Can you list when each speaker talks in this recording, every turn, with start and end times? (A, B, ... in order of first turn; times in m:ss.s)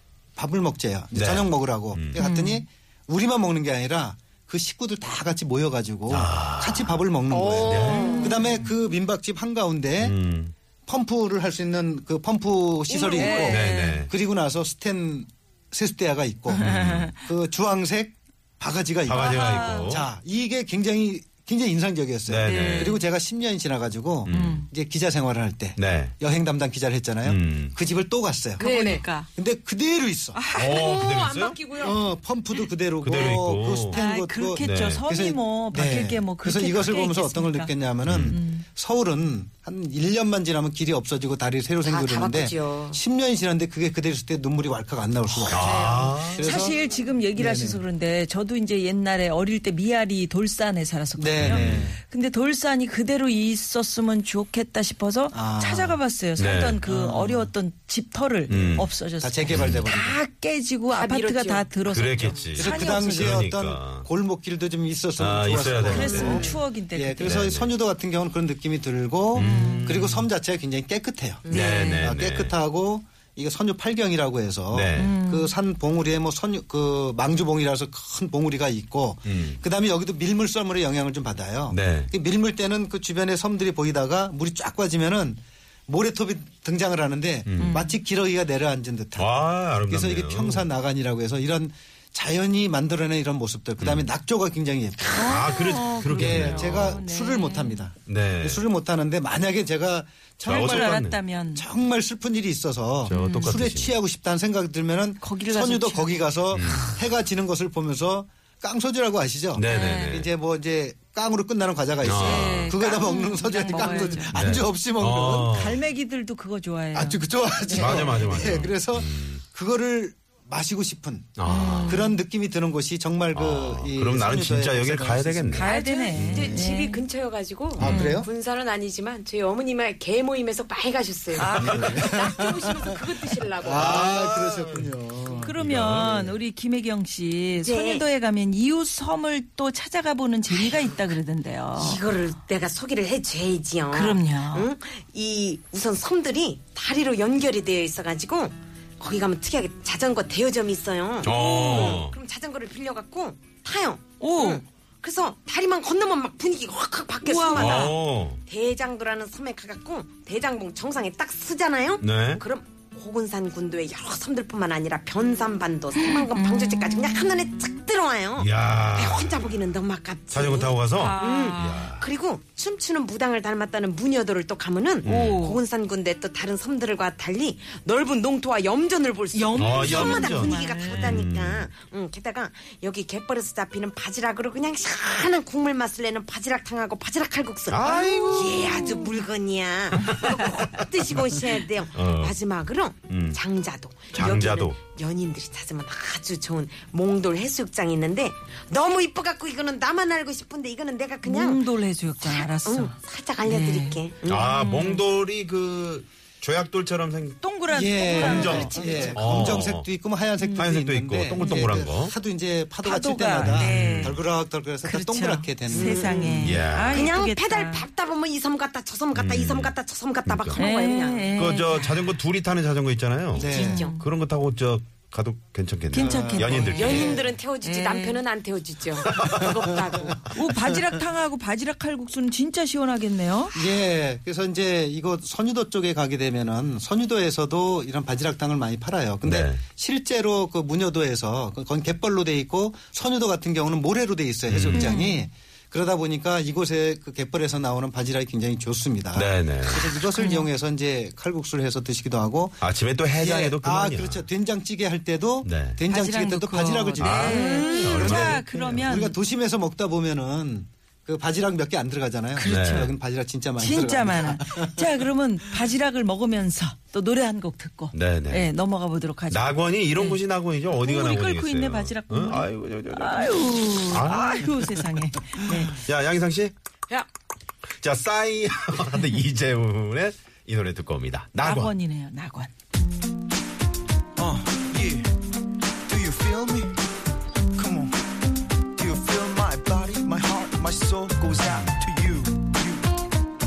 0:00.4-0:10.2 A
0:01.1-0:02.2 B
0:02.2-0:02.6 C
0:06.1-0:07.0 B
0:07.3-0:08.4 D
0:07.6-0:08.1 B
0:07.9-0:08.6 C
0:10.0-0:10.5 B
0:10.8-0:30.4 A
0:12.9-0:13.4 D
0:13.1-0:14.0 C
0:13.4-0:14.1 B
0:16.5-0:17.1 C
0:16.6-0:17.1 B
0:19.0-0:20.1 B
0:19.1-0:20.0 C
0:22.3-0:22.9 B
0:22.4-0:23.0 C
0:24.2-0:24.6 B
0:24.3-0:24.7 C
0:25.8-0:26.2 B
0:27.2-0:27.8 B
0:28.6-0:29.3 C
0:28.6-0:29.0 D
0:30.3-0:30.9 C
0:30.5-0:31.6 B
0:30.5-0:32.0 D
0:31.8-0:46.8 A
0:33.0-0:34.0 B
0:33.9-0:38.6 C
0:34.6-0:35.0 B
0:38.0-0:38.4 B
0:41.8-0:43.0 D
0:45.5-0:46.5 B
0:45.5-1:03.5 C
0:45.6-0:45.9 D
0:47.3-0:47.8 A
0:51.2-0:52.0 A
0:51.4-0:51.9 B
0:55.3-0:56.0 A
0:56.4-0:56.8 B
0:56.8-0:57.5 A
0:58.5-0:58.9 B
0:59.2-1:00.2 A
0:59.5-0:59.8 B
1:00.9-1:02.4 D
1:01.9-1:04.1 B
1:02.6-1:41.0 A
1:05.2-1:06.6 B
1:05.9-1:07.4 C
1:06.0-1:06.5 D
1:07.2-1:07.7 B
1:09.3-1:10.3 B
1:09.4-1:10.0 C
1:11.4-1:12.0 D
1:11.5-1:12.5 B
1:11.5-1:12.1 C
1:14.7-1:15.2 B
1:15.0-1:15.6 C
1:19.2-1:19.6 B
1:21.7-1:22.1 B
1:27.4-1:27.8 B
1:27.6-1:28.0 C
1:29.1-1:30.7 B
1:33.8-1:34.1 B
1:35.1-1:37.9 C
1:35.2-1:37.0 B
1:38.1-1:38.6 B
1:40.4-1:41.7 C
1:40.4-1:41.2 B
1:41.5-1:55.5 A
1:43.0-1:43.9 B
1:43.1-1:43.6 C
1:45.2-1:46.9 C
1:46.5-1:47.0 B
1:49.5-1:50.3 B
1:49.7-1:50.2 C
1:52.0-1:52.7 B
1:52.2-1:54.4 C
1:54.3-1:55.8 B
1:55.5-1:58.7 C
1:56.9-2:05.6 A
1:57.8-1:59.4 B
2:01.4-2:02.0 B
2:01.4-2:02.2 C
2:03.3-2:06.3 B
2:05.5-2:07.0 C
2:05.6-2:14.0 D
2:06.3-2:06.6 A
2:07.8-2:08.0 B
2:07.8-2:08.2 C
2:07.8-2:08.3 A
2:11.3-2:12.1 C
2:11.6-2:12.7 A
2:13.6-2:15.5 A
2:13.6-2:16.4 B
2:15.3-2:22.0 C
2:17.6-2:18.1 D
2:20.5-2:21.0 D
2:21.7-3:21.6 D
2:23.9-2:24.7 C
2:31.2-2:32.2 B
2:31.2-2:32.1 C
2:34.2-2:34.6 C
2:37.2-2:38.0 C
2:37.5-2:38.4 B
2:42.0-2:42.4 B
2:45.9-2:47.6 C
2:48.4-2:49.5 B
2:50.3-2:52.0 B
2:51.0-2:51.9 C
2:55.0-2:55.4 B
2:55.0-2:55.6 C
2:59.3-3:01.2 C
2:59.5-3:01.7 B
3:07.7-3:08.7 B
3:08.0-3:09.1 C
3:11.9-3:12.4 B
3:13.1-3:13.4 B
3:14.1-3:14.8 B
3:21.2-3:25.0 C
3:22.2-3:24.6 D
3:24.3-3:27.5 B
3:27.4-3:29.1 C
3:27.7-3:36.1 A
3:28.0-3:29.5 D
3:28.2-3:29.9 B
3:30.4-3:30.7 C
3:30.6-3:32.2 B
3:31.4-3:31.7 C
3:32.8-3:34.2 C
3:33.4-3:34.1 B
3:34.8-3:37.8 C
3:35.7-3:41.5 D
3:36.4-3:37.1 B
3:39.1-3:39.7 B
3:40.2-3:40.6 B
3:40.5-3:42.2 C
3:41.3-3:47.2 B
3:43.3-3:43.9 A
3:43.4-3:43.9 D
3:43.4-3:44.1 C
3:45.9-3:48.2 C
3:45.9-3:47.3 A
3:46.8-3:50.2 D
3:49.2-3:49.4 A
3:50.0-3:50.9 A
3:50.3-3:53.6 C
3:53.5-4:24.9 A
3:59.2-3:59.6 B
4:04.5-4:04.9 B
4:04.7-4:05.2 C
4:09.1-4:09.9 B
4:10.0-4:10.5 C
4:12.6-4:14.2 B
4:15.4-4:15.8 B
4:15.9-4:19.2 C
4:17.0-4:18.4 B
4:17.3-4:17.8 D
4:22.3-4:22.9 C
4:22.5-4:22.9 B
4:23.6-4:30.2 C
4:27.9-4:28.5 B
4:29.3-4:34.4 B
4:30.8-4:35.8 C
4:35.7-4:36.5 B
4:37.8-4:41.7 B
4:41.4-4:42.5 C
4:44.2-4:45.1 E
4:45.9-4:46.7 E
4:47.6-4:47.9 E
4:48.8-4:52.8 E